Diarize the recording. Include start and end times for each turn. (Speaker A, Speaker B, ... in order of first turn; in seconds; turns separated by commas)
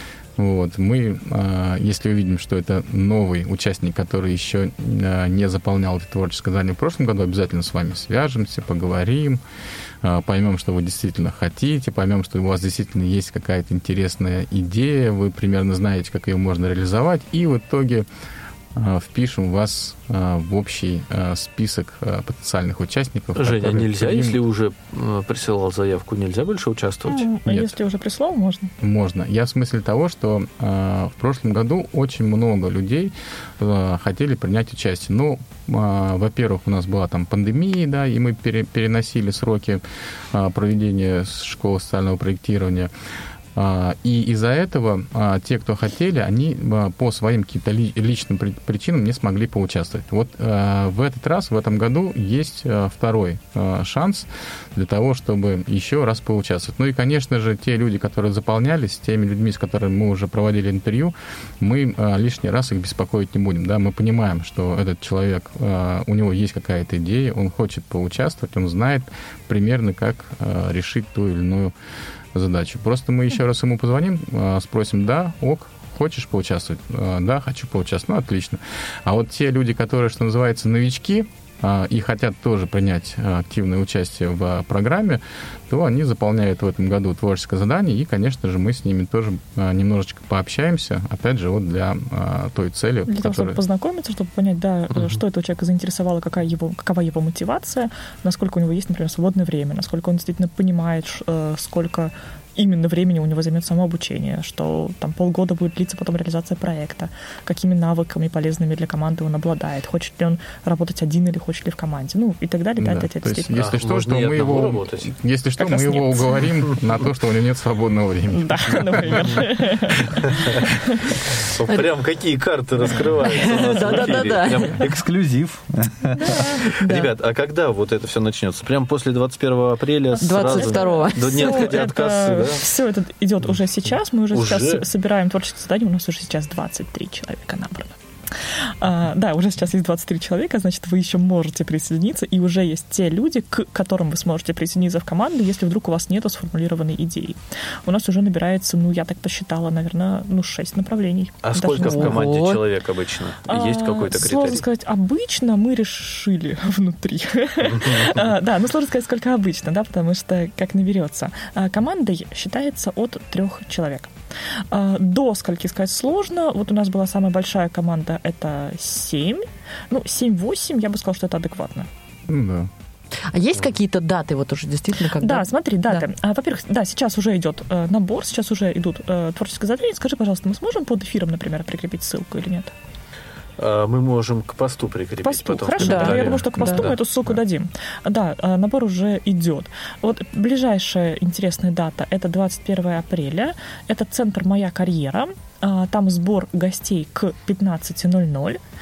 Speaker A: 0.4-9.4, Speaker A: 10.0-18.1, Speaker A: 18.7-24.4, Speaker B: 23.4-27.3, Speaker C: 27.1-28.7, Speaker A: 27.4-27.8, Speaker A: 28.8-42.9, Speaker A: 43.5-71.8, Speaker A: 72.3-93.6, Speaker C: 93.1-113.6, Speaker A: 112.8-119.4, Speaker B: 113.6-115.1, Speaker C: 115.6-116.4, Speaker C: 118.3-121.2, Speaker B: 121.5-132.7, Speaker D: 123.2-124.8, Speaker C: 126.2-126.6, Speaker D: 126.7-127.1, Speaker D: 130.2-131.7, Speaker C: 130.2-138.0, Speaker B: 134.3-134.8, Speaker C: 138.8-152.3, Speaker B: 151.4-154.6, Speaker D: 151.8-152.6, Speaker C: 153.5-164.1, Speaker B: 157.7-158.2, Speaker C: 164.7-171.9, Speaker A: 172.3-172.7, Speaker D: 173.3-176.1, Speaker C: 175.2-182.7, Speaker B: 183.6-187.0, Speaker C: 185.2-198.6, Speaker D: 185.8-186.9